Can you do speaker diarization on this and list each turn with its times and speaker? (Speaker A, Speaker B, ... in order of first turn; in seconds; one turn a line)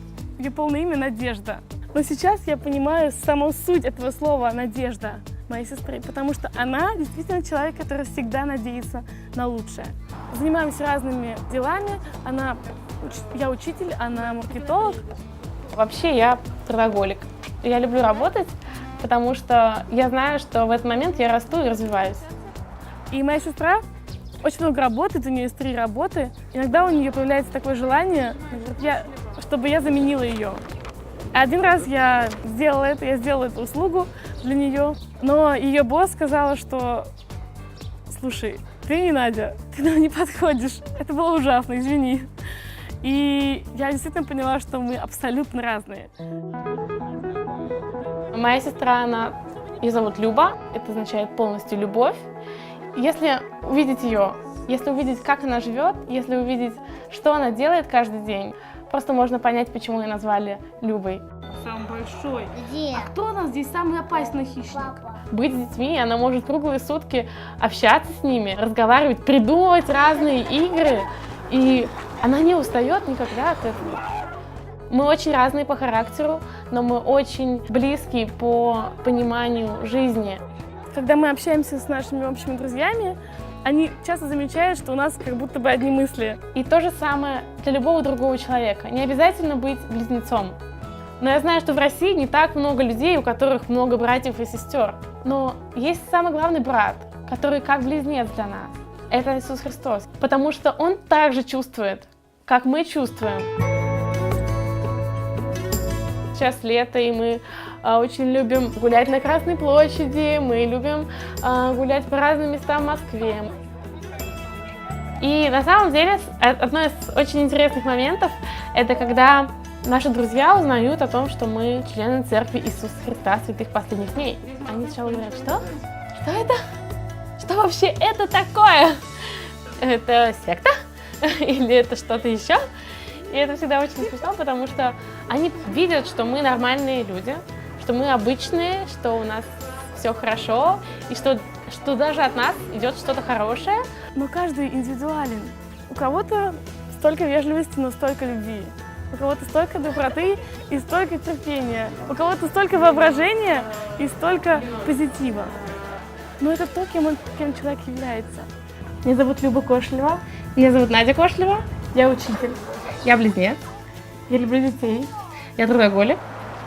Speaker A: 0.3-15.0
Speaker B: 15.7-22.3
Speaker A: 23.1-23.8
Speaker A: 24.4-30.6
Speaker A: 31.3-37.1
Speaker A: 38.1-42.3
Speaker A: 43.0-46.1
Speaker B: 48.3-52.2
Speaker B: 53.0-61.2
Speaker A: 61.6-65.1
Speaker B: 65.3-74.1
Speaker B: 74.9-80.4
Speaker A: 80.9-86.4
Speaker B: 86.5-90.6
Speaker B: 91.2-103.5
Speaker B: 106.3-113.5
Speaker B: 115.2-126.6
Speaker B: 127.4-132.6
Speaker B: 133.3-143.8
Speaker A: 144.1-155.5
Speaker A: 156.4-158.5
Speaker B: 159.0-163.6
Speaker B: 164.3-166.2